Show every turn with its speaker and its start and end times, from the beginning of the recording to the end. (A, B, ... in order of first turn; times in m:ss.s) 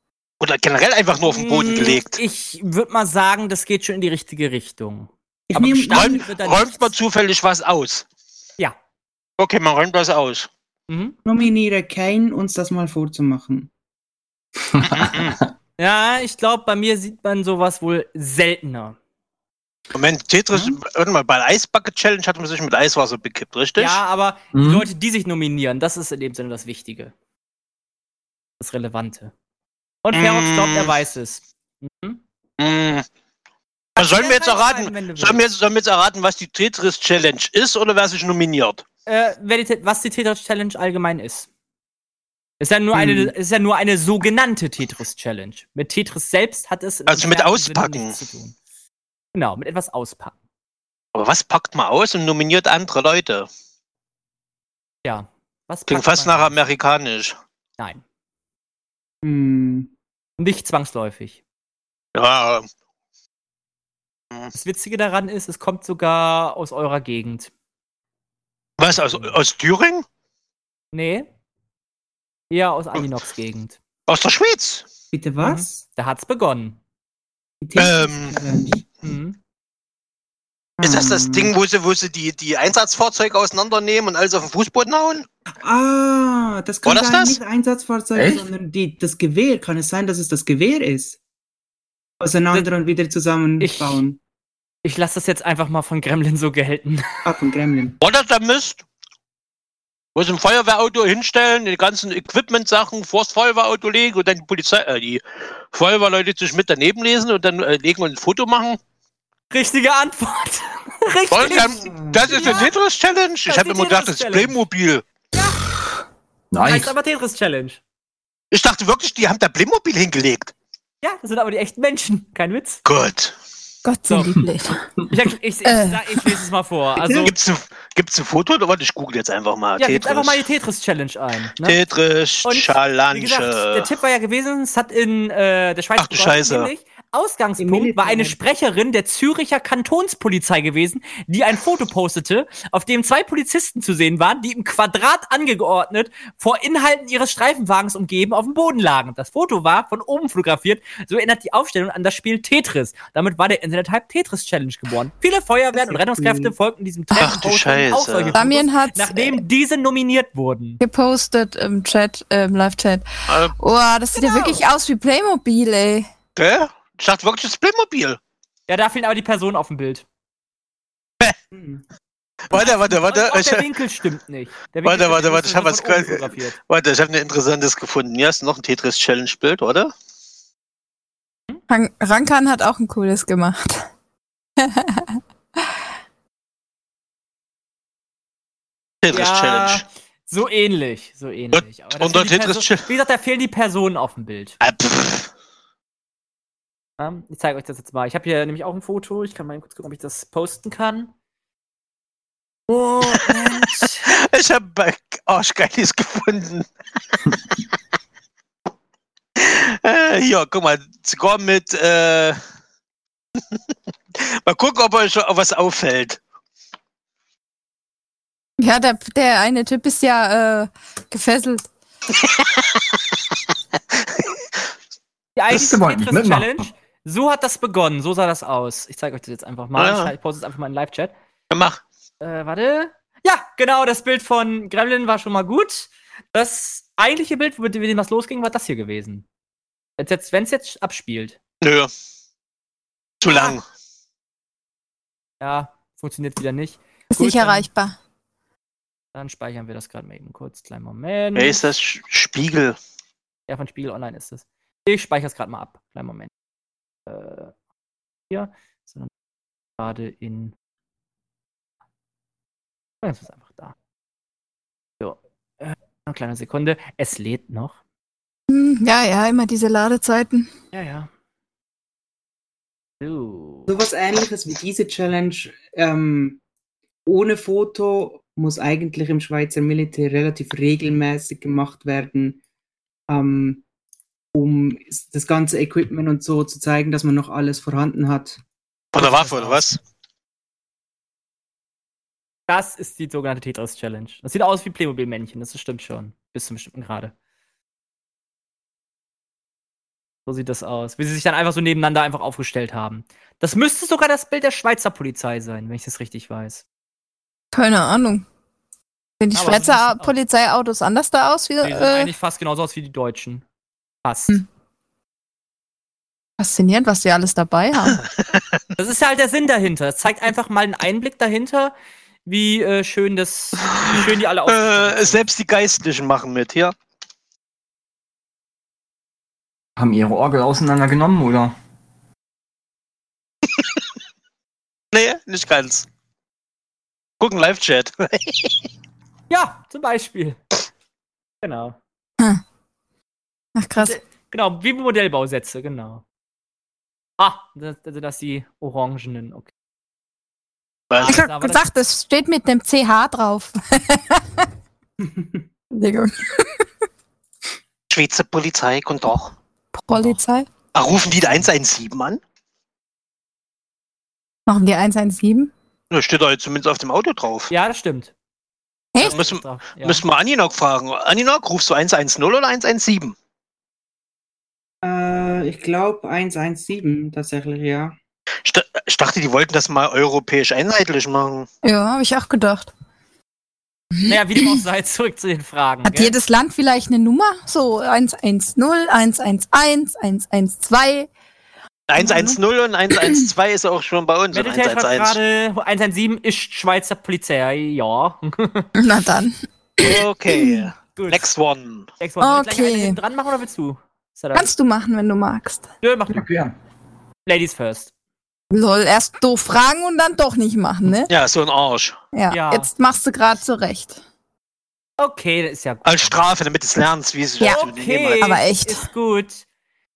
0:00.4-0:02.2 A
0:01.2-0:06.9 B
0:05.5-0:06.2 C
0:05.9-0:08.0 A
0:09.4-0:10.5 A
0:10.9-0:11.2 B
0:11.2-0:13.7 C
0:14.7-0:15.4 D
0:14.8-0:15.4 A
0:15.8-0:19.0 B
0:19.9-0:24.0 A
0:23.8-0:27.1 B
0:24.5-0:24.9 D
0:28.6-0:29.3 B
0:30.0-0:32.2 B
0:30.1-0:30.9 A
0:32.6-0:33.0 A
0:34.0-0:35.4 B
0:34.0-0:38.8 A
0:39.1-0:41.5 B
0:42.6-0:48.5 B
0:42.9-0:43.3 C
0:47.1-0:48.2 A
0:49.3-0:50.3 B
0:51.1-0:53.5 A
0:55.0-0:56.5 B
0:55.9-0:57.4 A
0:59.2-0:59.9 C
1:00.4-1:01.4 B
1:02.1-1:02.7 A
1:04.5-1:07.5 B
1:08.8-1:10.0 A
1:10.9-1:11.3 B
1:12.5-1:13.8 B
1:14.1-1:14.9 A
1:15.1-1:15.8 C
1:15.4-1:16.8 B
1:17.6-1:18.9 C
1:17.8-1:18.4 A
1:19.0-1:19.4 B
1:20.8-1:21.5 C
1:20.8-1:25.3 A
1:25.6-1:31.2 C
1:26.8-1:27.4 A
1:28.1-1:28.5 D
1:32.2-1:34.2 C
1:33.6-1:34.0 B
1:34.8-1:37.2 B
1:37.2-1:38.0 C
1:38.0-1:38.8 A
1:40.1-1:48.8 A
1:49.5-1:52.7 B
1:51.3-1:55.0 A
1:51.5-1:52.7 C
1:53.4-1:54.5 B
1:55.3-1:55.6 B
1:56.5-1:56.9 D
1:56.6-1:57.8 B
1:58.5-2:00.5 A
2:01.0-2:02.8 B
2:02.8-2:03.3 A
2:03.8-2:04.8 E
2:04.1-2:04.3 B
2:05.1-2:07.3 B
2:05.6-2:06.4 E
2:07.2-2:10.4 A
2:09.8-2:11.8 B
2:11.6-2:13.9 A
2:12.4-2:40.8 B
2:16.0-2:16.7 A
2:17.6-2:18.4 C
2:35.7-2:36.5 C
2:37.2-2:38.4 A
2:38.3-2:39.4 E
2:40.8-2:46.1 E
2:43.3-2:43.5 A
2:44.1-2:44.6 B
2:46.4-2:48.2 A
2:48.7-2:50.0 B
2:51.5-2:51.8 C
2:52.5-2:53.6 A
2:52.5-2:56.6 B
2:54.8-2:59.9 A
3:01.7-3:03.9 E
3:04.6-3:05.2 E
3:09.0-3:09.8 A
3:09.1-3:14.6 B
3:11.5-3:12.8 A
3:14.6-3:15.3 A
3:17.0-3:21.1 B
3:22.7-3:24.1 B
3:23.0-3:26.7 A
3:29.4-3:32.4 A
3:34.1-3:36.2 A
3:38.6-3:41.7 E
3:45.4-3:51.1 B
3:45.5-3:46.7 D
3:49.8-3:50.1 A
3:51.5-3:51.8 A
3:52.2-3:59.2 B
4:00.0-4:01.4 B
4:01.6-4:01.9 A
4:03.2-4:03.6 A
4:03.2-4:03.6 B
4:05.4-4:07.6 B
4:07.1-4:08.0 E
4:09.1-4:11.6 B
4:11.3-4:12.8 A
4:13.5-4:16.3 B
4:17.1-4:17.5 B
4:18.3-4:19.1 B
4:19.8-4:20.5 B
4:23.0-4:23.7 B
4:25.0-4:27.8 B
4:28.5-4:30.5 E
4:30.7-4:31.1 B
4:33.0-4:33.7 B
4:33.7-4:36.4 C
4:37.0-4:42.4 C
4:43.1-4:43.6 C
4:44.3-4:48.4 C
4:48.9-4:49.8 A
4:48.9-4:49.6 B
4:52.5-4:57.1 B
5:00.2-5:06.6 B
5:07.5-5:08.2 E
5:09.2-5:12.1 E
5:09.3-5:10.1 B
5:11.6-5:13.4 B
5:14.0-5:14.3 B
5:16.4-5:18.0 E
5:18.8-5:21.7 B
5:22.2-5:25.3 B
5:23.8-5:26.7 A
5:29.8-5:31.5 D
5:34.9-5:35.8 A
5:37.2-5:38.6 A
5:39.3-5:40.4 B
5:41.4-5:41.8 B
5:43.6-5:44.0 E
5:43.8-5:46.0 B
5:47.2-5:49.5 B
5:50.9-5:51.2 A
5:51.0-5:51.6 B
5:51.0-5:54.4 E
5:55.0-5:55.4 C
5:55.7-5:56.6 E
5:57.9-5:59.3 A
5:59.8-6:00.5 E
6:00.7-6:02.2 A
6:00.9-6:01.5 B
6:04.5-6:05.5 E
6:05.9-6:07.5 A
6:07.5-6:08.1 B
6:08.9-6:09.2 E
6:09.0-6:10.0 B
6:09.0-6:13.2 A
6:14.8-6:18.0 C
6:18.4-6:21.5 A
6:21.6-6:22.7 E
6:23.9-6:24.6 E
6:24.0-6:26.2 B
6:25.8-6:31.1 E
6:31.9-6:35.2 A
6:32.0-6:32.4 C
6:33.0-6:33.2 E
6:34.3-6:38.7 B
6:38.8-6:40.7 E
6:39.8-6:41.9 A
6:40.9-6:41.2 B
6:42.0-6:44.5 B
6:42.2-6:43.0 E
6:44.3-6:45.6 E
6:45.8-6:46.3 B
6:46.1-6:46.5 D
6:47.2-6:47.9 B
6:48.5-6:51.1 E
6:51.1-6:52.0 A
6:52.1-6:54.0 E
6:52.3-6:52.7 B
6:55.0-6:56.2 B
6:55.8-6:58.2 A
6:57.4-6:57.7 E
6:57.4-6:59.4 B
6:58.2-6:58.8 E